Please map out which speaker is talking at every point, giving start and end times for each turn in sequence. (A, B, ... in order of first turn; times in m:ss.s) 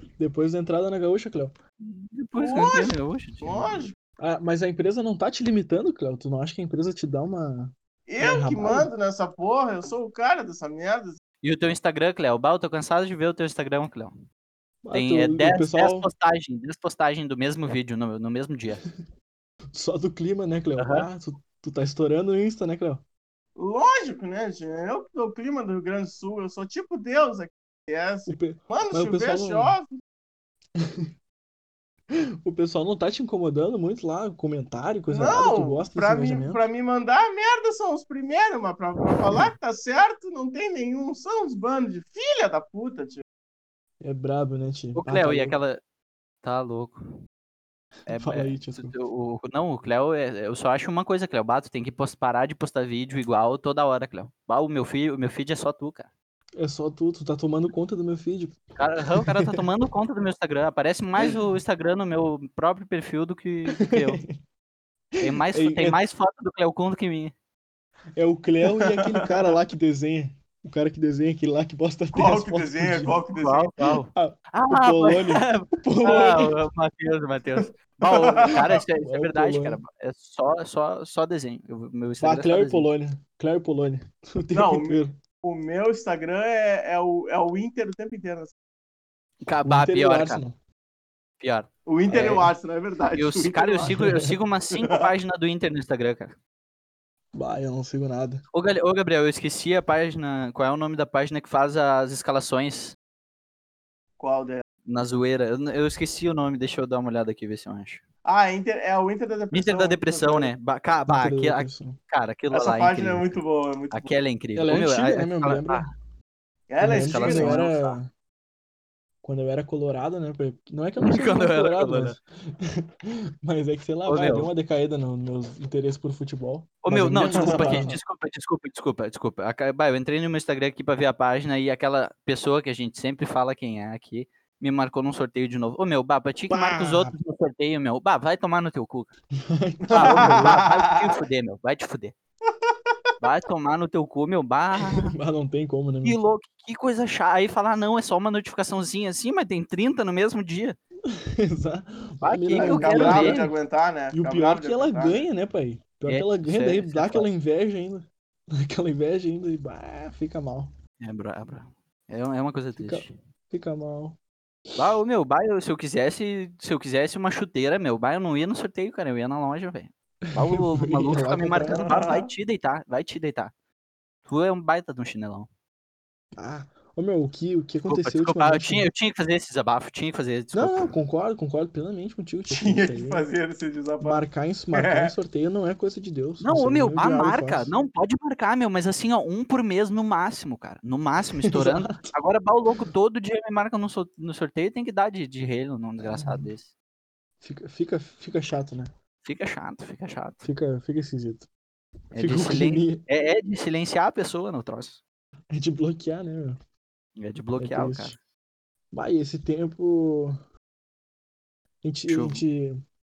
0:00.2-0:01.5 A
0:01.8-0:03.8 B
0:02.4-0:03.9 C
0:04.2-0:08.9 A
0:08.1-0:11.2 C
0:11.4-0:14.2 B
0:14.8-0:16.1 A
0:14.9-0:18.8 B
0:19.7-0:23.0 A
0:20.8-0:21.0 B
0:23.6-0:30.0 C
0:28.3-0:29.8 A
0:30.8-0:31.1 A
0:32.1-0:36.6 A
0:35.1-0:43.2 C
0:39.3-0:39.5 A
0:44.0-0:45.6 A
0:45.0-0:45.8 B
0:46.4-0:47.0 B
0:48.1-0:56.1 B
0:48.1-0:48.9 A
0:56.6-0:58.6 A
0:58.8-1:04.2 B
0:59.1-0:59.6 A
1:03.8-1:04.3 A
1:05.2-1:06.0 A
1:05.2-1:07.3 B
1:08.2-1:13.2 A
1:08.8-1:09.3 C
1:12.1-1:13.7 C
1:13.3-1:22.9 B
1:14.1-1:16.5 A
1:17.6-1:18.8 C
1:18.5-1:19.8 A
1:22.2-1:25.2 A
1:24.5-1:28.5 C
1:29.4-1:30.4 B
1:29.6-1:30.6 A
1:31.4-1:32.5 B
1:31.8-1:34.0 C
1:33.1-1:36.4 B
1:33.8-1:34.3 A
1:34.7-1:35.1 C
1:37.3-1:38.4 A
1:38.5-1:43.0 B
1:44.2-1:44.6 C
1:44.9-1:48.0 B
1:48.2-1:50.5 C
1:49.5-1:53.4 B
1:51.1-1:52.0 A
1:52.5-1:54.1 C
1:53.9-1:55.9 B
1:54.6-1:55.9 A
1:56.7-1:57.7 C
1:56.8-1:58.1 A
1:57.0-1:57.9 B
1:59.2-2:08.0 A
2:01.0-2:02.2 B
2:04.0-2:04.5 B
2:06.8-2:19.1 B
2:07.2-2:07.9 C
2:16.5-2:17.1 A
2:19.4-2:20.7 A
2:19.9-2:21.0 C
2:19.9-2:22.1 B
2:22.7-2:22.9 C
2:23.2-2:25.1 B
2:24.9-2:26.2 A
2:26.0-2:30.8 B
2:31.1-2:33.5 A
2:32.2-2:33.5 B
2:32.6-2:35.2 C
2:34.1-2:40.7 A
2:36.0-2:37.3 B
2:41.0-2:43.1 B
2:42.8-2:44.2 A
2:44.8-2:53.5 B
2:50.2-2:52.0 A
2:51.7-2:52.3 C
2:54.2-2:55.5 B
2:56.4-2:58.9 A
2:57.9-3:00.9 B
3:00.5-3:03.2 A
3:02.5-3:05.1 C
3:04.0-3:07.7 A
3:06.4-3:16.7 B
3:11.4-3:12.1 A
3:16.0-3:16.5 A
3:17.4-3:18.9 A
3:19.2-3:20.4 B
3:20.4-3:21.5 A
3:22.1-3:25.0 B
3:22.1-3:23.0 A
3:25.5-3:26.6 A
3:27.2-3:28.2 B
3:27.6-3:28.2 A
3:28.9-3:30.4 A
3:31.8-3:32.8 A
3:32.1-3:32.4 B